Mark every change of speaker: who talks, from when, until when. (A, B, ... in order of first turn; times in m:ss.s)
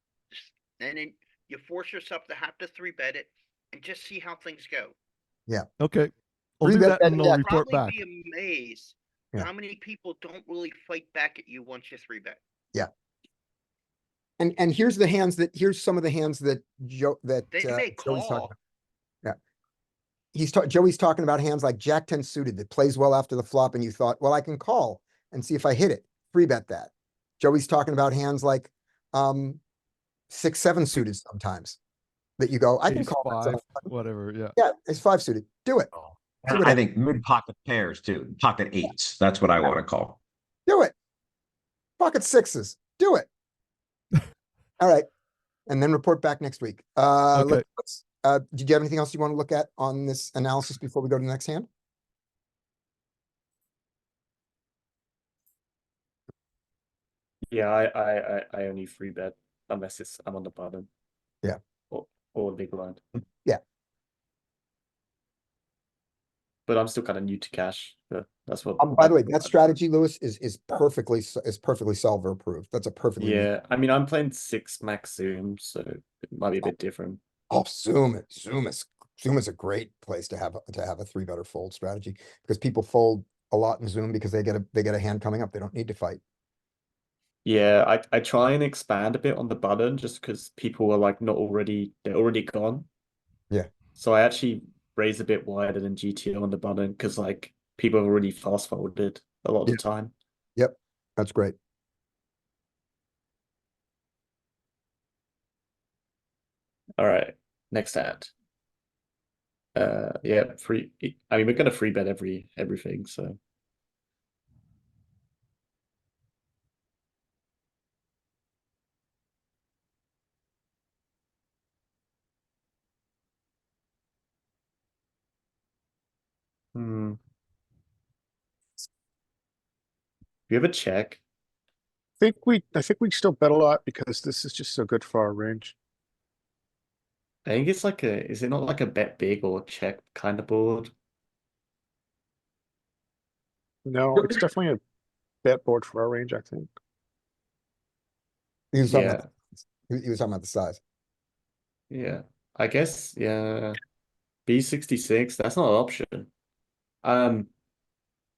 0:00.3-0:05.0 A
0:05.8-0:08.0 B
0:06.6-0:07.4 C
0:07.0-0:12.4 A
0:14.4-0:18.5 C
0:17.5-0:18.5 A
0:20.3-0:29.6 C
0:30.3-0:31.8 C
0:32.4-0:33.9 C
0:32.8-0:34.6 B
0:34.6-0:35.9 C
0:36.0-0:40.2 D
0:36.5-0:36.8 C
0:40.7-0:40.9 C
0:42.0-0:43.3 C
0:44.8-0:45.1 C
0:45.7-0:51.7 C
0:47.3-0:47.6 B
0:57.5-1:00.9 E
1:01.9-1:03.0 E
1:06.7-1:09.6 E
1:08.8-1:13.5 C
1:13.2-1:17.2 E
1:17.5-1:26.2 C
1:27.4-1:32.9 E
1:34.0-1:40.1 E
1:40.6-1:41.6 C
1:47.0-1:48.3 E
1:49.8-1:53.4 E
2:06.8-2:07.2 E
2:10.5-2:11.2 E
2:12.2-2:15.8 F
2:17.5-2:20.9 E
2:23.8-2:24.8 F
2:25.4-2:26.7 F
2:28.7-2:30.8 C
2:28.9-2:29.2 E
2:31.9-2:33.8 E
2:34.5-2:36.3 E
2:37.0-2:37.5 E